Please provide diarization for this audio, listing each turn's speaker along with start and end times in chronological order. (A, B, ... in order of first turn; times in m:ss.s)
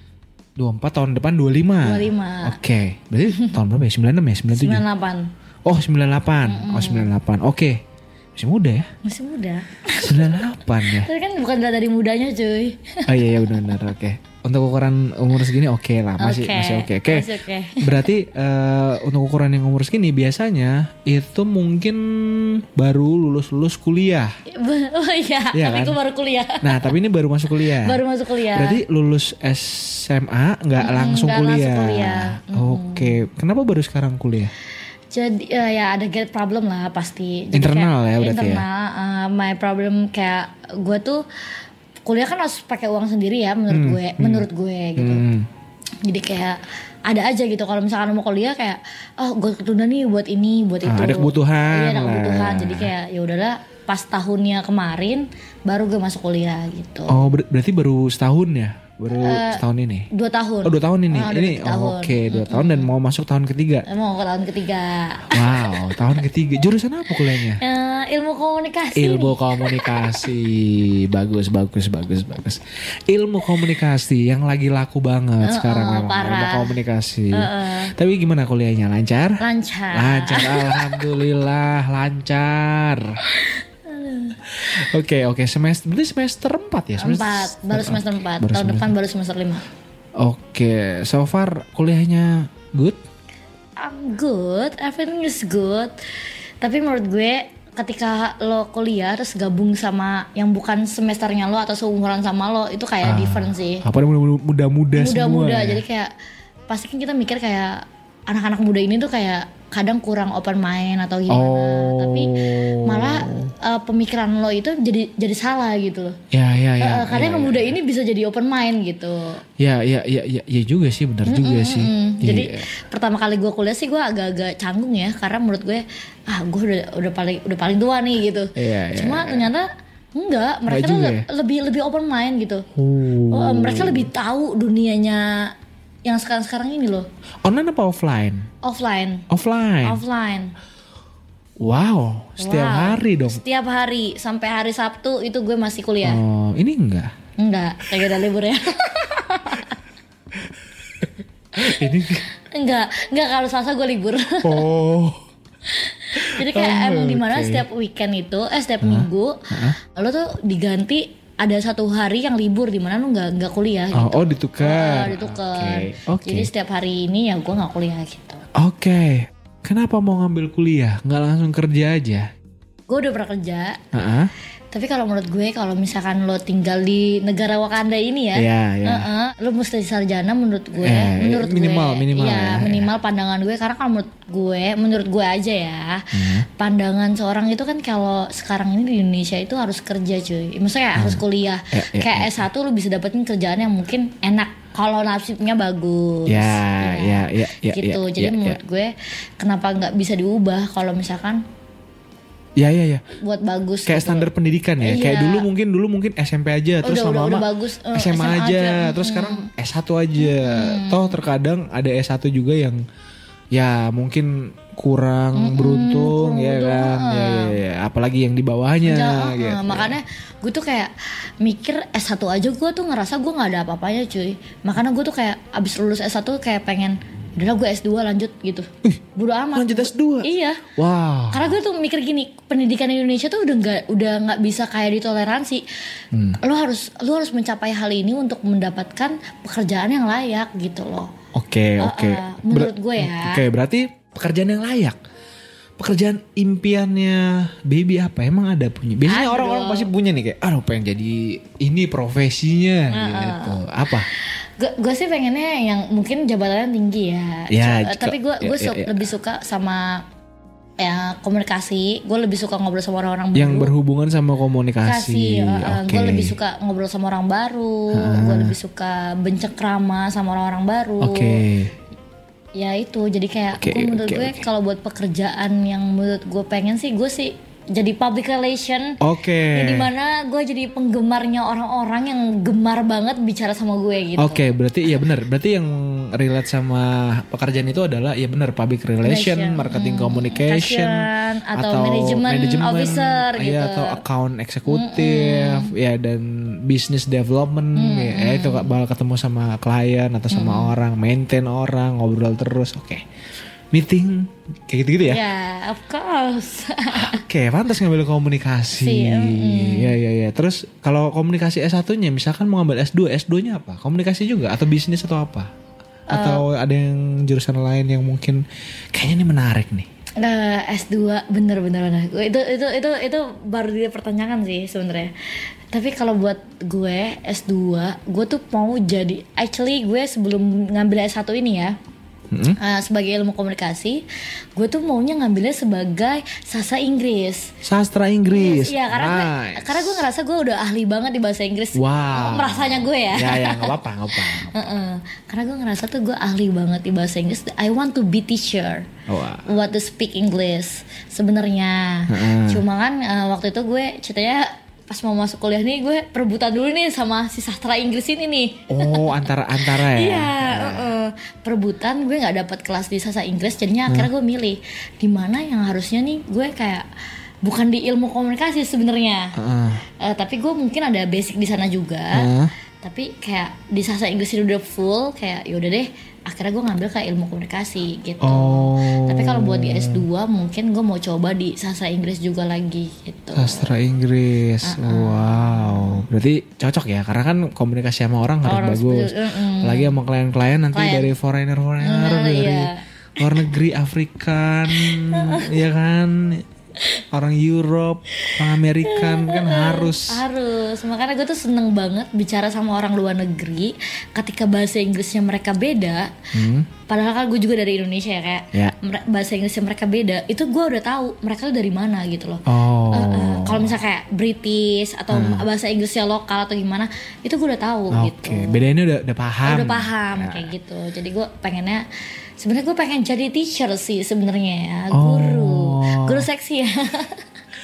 0:00.6-0:04.8 A
0:01.8-0:02.6 B
0:04.5-0:05.3 B
0:05.6-0:07.8 A
0:06.4-0:07.1 B
0:08.4-0:08.9 A
0:09.0-0:13.1 B
0:09.9-0:11.1 A
0:13.0-0:17.3 A
0:16.2-0:18.0 B
0:17.8-0:24.3 A
0:24.5-0:26.9 B
0:25.5-0:26.0 A
0:26.6-0:34.5 A
0:27.6-0:28.8 B
0:30.8-0:33.2 B
0:35.1-0:41.2 B
0:37.5-0:38.6 A
0:42.0-0:45.2 B
0:43.7-0:44.4 A
0:45.0-0:45.5 A
0:46.0-0:57.2 B
0:50.8-0:52.9 A
0:57.1-1:00.1 A
0:59.1-1:02.9 B
1:00.6-1:03.8 A
1:03.9-1:06.0 B
1:05.3-1:07.6 A
1:07.6-1:10.0 B
1:08.9-1:19.4 A
1:15.4-1:16.8 B
1:17.3-1:17.9 B
1:19.4-1:21.0 B
1:19.9-1:23.2 A
1:23.9-1:24.4 B
1:24.5-1:28.9 A
1:27.0-1:29.7 B
1:30.2-1:33.0 A
1:33.8-1:35.9 B
1:36.6-1:43.8 B
1:43.0-1:45.8 A
1:44.9-1:46.1 B
1:46.7-1:56.2 B
1:51.3-1:53.5 A
1:56.3-1:57.8 A
1:56.8-1:59.4 B
1:59.6-2:02.7 A
2:01.3-2:12.6 B
2:08.6-2:09.5 A
2:10.7-2:11.2 A
2:12.7-2:14.1 A
2:13.3-2:17.1 B
2:17.4-2:18.5 A
2:18.6-2:19.2 B
2:19.3-2:20.0 A
2:19.8-2:20.5 B
2:21.6-2:23.4 A
2:22.4-2:26.2 B
2:26.0-2:27.1 A
2:27.4-2:29.8 B
2:31.0-2:32.2 A
2:32.4-2:34.6 B
2:34.4-2:35.2 A
2:35.7-2:48.4 B
2:36.2-2:37.6 A
2:38.8-2:39.8 A
2:43.9-2:46.5 A
2:48.6-2:52.3 A
2:52.9-2:53.8 B
2:53.9-2:54.3 A
2:54.7-3:21.4 B
2:58.3-2:59.0 A
3:00.8-3:02.9 A
3:06.1-3:06.4 A
3:11.0-3:12.4 A
3:16.3-3:18.6 A
3:22.6-3:23.0 A
3:23.1-3:24.3 B
3:23.8-3:32.8 A
3:24.8-3:25.5 B
3:26.8-3:29.5 B
3:30.2-3:31.2 B
3:33.5-3:40.0 A
3:35.4-3:37.6 B
3:38.8-3:50.6 B
3:49.5-3:51.5 A
3:51.3-3:55.6 B
3:56.1-3:56.4 A
3:56.4-4:01.1 B
4:01.3-4:05.0 A
4:01.8-4:03.4 B
4:05.8-4:14.1 A
4:09.0-4:09.9 B
4:12.9-4:13.6 B
4:14.1-4:20.0 B
4:17.5-4:19.1 A
4:20.8-4:23.7 B
4:23.3-4:26.4 A
4:24.8-4:31.4 B
4:27.9-4:28.5 A
4:31.0-4:31.7 A
4:32.5-4:39.0 B
4:33.6-4:34.4 A
4:39.0-4:39.9 A
4:39.5-4:44.5 B
4:44.2-5:03.0 A
4:49.0-4:54.0 B
4:54.7-4:55.7 B
4:57.7-4:58.7 B
5:00.3-5:00.7 B
5:03.7-5:05.2 A
5:05.0-5:07.2 B
5:06.9-5:15.5 A
5:08.7-5:09.9 B
5:16.1-5:16.4 B
5:16.1-5:19.9 A
5:20.2-5:25.1 B
5:25.7-5:31.8 B
5:32.3-5:32.6 A
5:32.6-5:34.0 B
5:34.6-5:37.5 B
5:37.6-5:40.0 A
5:38.3-5:48.9 B
5:41.7-5:44.7 A
5:49.1-5:49.4 A
5:49.4-6:06.8 B
5:52.1-5:52.6 A
5:58.7-6:00.9 A
6:07.4-6:09.3 B
6:09.4-6:09.8 A
6:10.0-6:12.3 B
6:12.1-6:12.5 A
6:12.8-6:23.7 B
6:18.2-6:20.0 A
6:23.3-6:36.4 A
6:24.6-6:26.0 B
6:28.4-6:29.9 B
6:30.7-6:31.1 B
6:31.8-6:32.8 B
6:34.7-6:35.5 B
6:37.1-6:40.2 A
6:38.8-6:46.1 B
6:46.3-6:46.7 A
6:46.9-6:58.6 B
6:52.5-6:53.8 A
6:55.1-6:55.4 A
6:57.9-7:00.5 A
6:59.4-7:01.8 B
7:02.4-7:07.2 B
7:04.9-7:06.3 A